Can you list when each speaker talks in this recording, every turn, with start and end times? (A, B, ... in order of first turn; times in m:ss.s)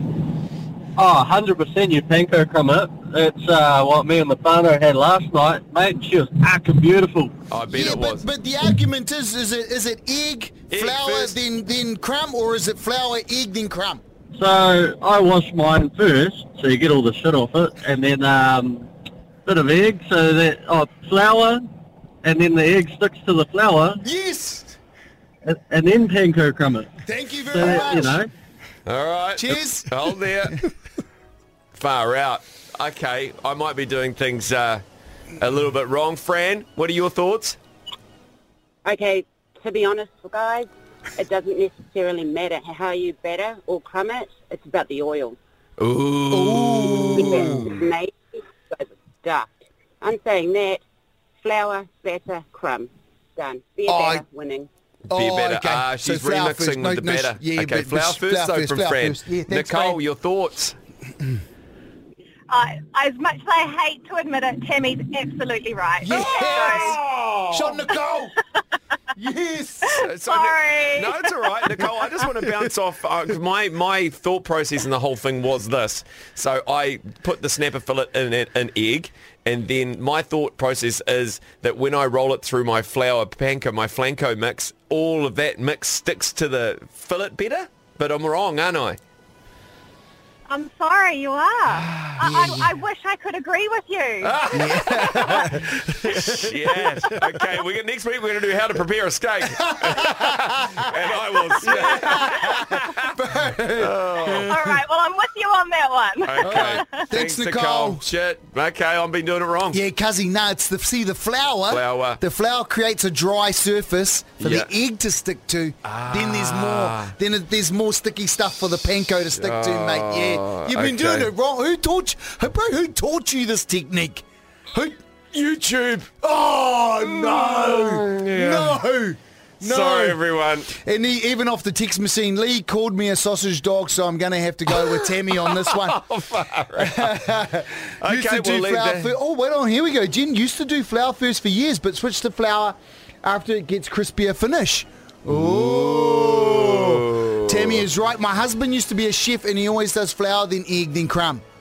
0:01.0-0:07.3 A
0:07.5-0:08.2 B
0:07.7-0:14.0 C
0:10.7-0:11.4 B
0:14.3-0:18.9 A
0:19.4-0:21.7 A
0:22.2-0:24.0 A
0:24.0-0:24.7 C
0:25.4-0:26.9 A
0:27.0-0:28.2 C
0:27.5-0:28.3 A
0:28.9-0:30.6 B
0:29.4-0:30.6 C
0:31.8-0:34.8 B
0:35.4-0:37.6 B
0:38.8-0:45.4 D
0:45.8-0:47.5 B
0:46.3-0:47.8 C
0:47.1-0:48.2 D
0:48.7-0:50.8 D
0:51.4-0:54.7 D
0:53.9-0:54.2 C
0:55.1-1:00.0 C
0:55.1-1:00.7 B
1:02.5-1:06.0 E
1:02.7-1:07.0 A
1:06.0-1:07.0 C
1:06.0-1:07.8 B
1:07.5-1:08.3 C
1:09.1-1:10.0 C
1:10.0-1:29.0 B
1:10.2-1:11.7 A
1:30.5-1:34.3 E
1:31.8-1:33.1 A
1:32.2-1:32.7 C
1:34.2-1:43.1 B
1:34.5-1:37.4 C
1:39.6-1:40.8 C
1:41.6-1:44.8 C
1:41.8-1:42.3 A
1:43.8-1:44.6 B
1:44.4-1:46.8 A
1:45.0-1:46.2 E
1:46.2-1:49.8 B
1:46.4-1:48.0 C
1:49.7-2:05.0 C
1:51.7-1:52.2 B
1:54.4-1:54.7 B
1:55.8-1:57.1 B
1:59.3-2:01.3 B
2:05.3-2:06.1 B
2:06.2-2:10.2 C
2:07.0-2:08.8 B
2:09.6-2:10.7 B
2:10.7-2:16.0 C
2:14.7-2:17.1 B
2:16.8-2:31.4 C
2:18.0-2:19.1 B
2:25.3-2:27.8 B